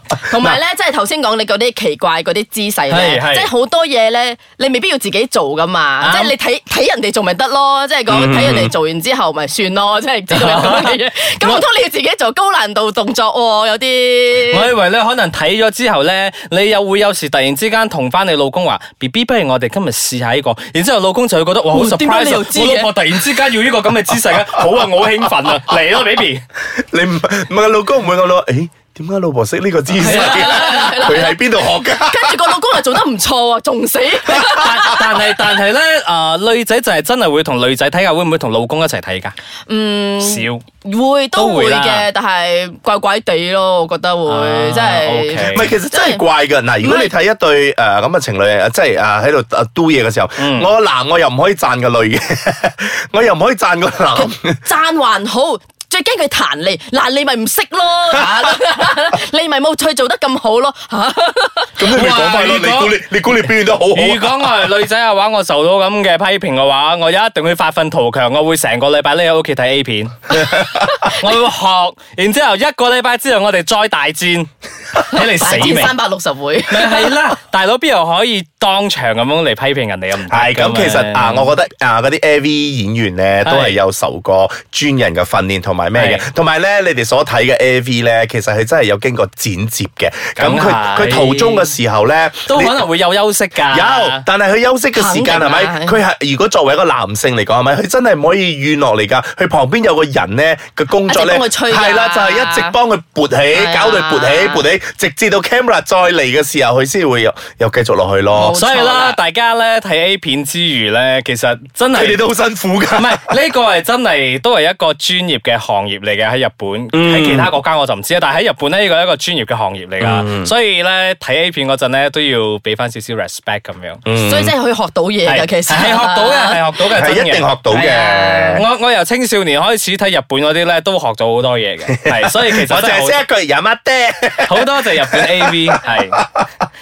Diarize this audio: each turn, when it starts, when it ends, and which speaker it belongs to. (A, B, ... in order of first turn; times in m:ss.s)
0:00.2-0:14.7 A
0:00.3-0:00.6 B
0:02.9-0:03.5 C
0:06.0-0:06.3 C
0:08.1-0:08.7 B
0:10.3-0:11.6 C
0:14.4-0:26.4 C
0:21.7-0:22.9 A
0:26.7-0:32.8 B
0:30.0-0:31.1 C
0:30.0-0:35.0 A
0:34.3-0:39.4 C
0:39.7-0:46.3 A
0:40.2-0:40.6 C
0:41.4-0:42.1 C
0:44.3-0:45.7 C
0:45.5-0:54.6 B
0:46.8-0:47.1 A
0:50.4-0:50.7 C
0:54.1-1:01.8 A
0:58.1-0:58.5 B
1:01.8-1:04.5 B
1:01.9-1:03.1 C
1:03.9-1:16.0 C
1:10.4-1:11.0 B
1:15.1-1:17.2 A
1:16.7-1:21.5 C
1:20.3-1:32.9 B
1:23.4-1:23.8 C
1:25.9-1:26.3 C
1:30.4-1:31.7 C
1:32.5-1:34.2 C
1:33.7-1:48.6 B
1:34.9-1:36.0 A
1:41.1-1:42.8 A
1:43.5-1:44.6 A
1:48.3-1:49.2 A
1:48.5-1:52.2 C
1:51.9-1:53.4 B
1:53.0-2:04.0 C
1:56.9-1:57.5 B
2:00.0-2:00.5 B
2:04.1-2:04.5 B
2:04.1-2:06.6 A
2:05.2-2:07.9 C
2:06.9-2:08.6 B
2:07.7-2:08.6 A
2:08.6-2:13.2 C
2:11.9-2:16.4 B
2:14.4-2:16.3 C